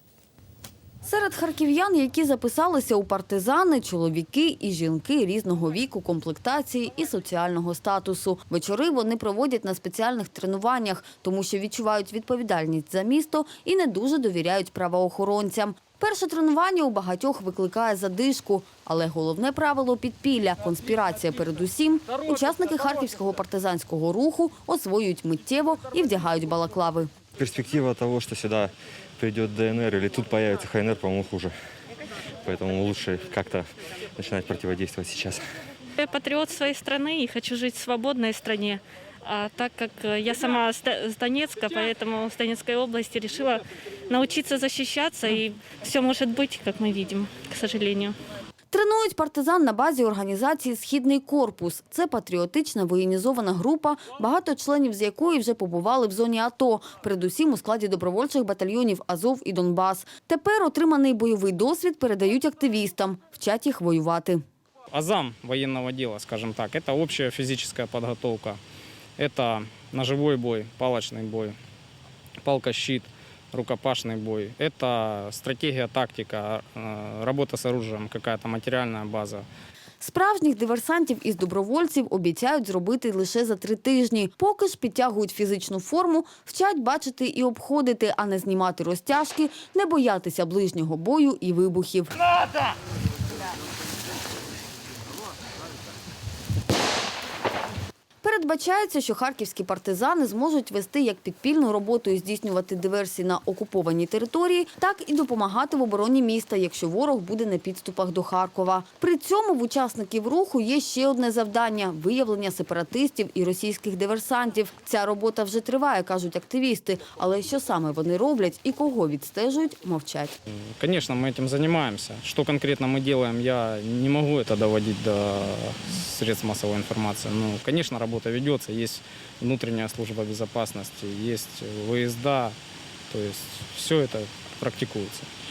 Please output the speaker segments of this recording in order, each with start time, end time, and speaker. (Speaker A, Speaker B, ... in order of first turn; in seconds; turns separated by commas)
Speaker A: 1.0-27.1, Speaker B: 27.4-31.5, Speaker B: 32.4-35.4, Speaker C: 36.0-48.1, Speaker A: 48.7-64.4, Speaker D: 64.9-68.6, Speaker D: 69.2-71.6, Speaker D: 72.4-79.5, Speaker A: 80.0-92.1, Speaker A: 98.2-120.3, Speaker D: 120.8-132.6, Speaker D: 133.1-135.3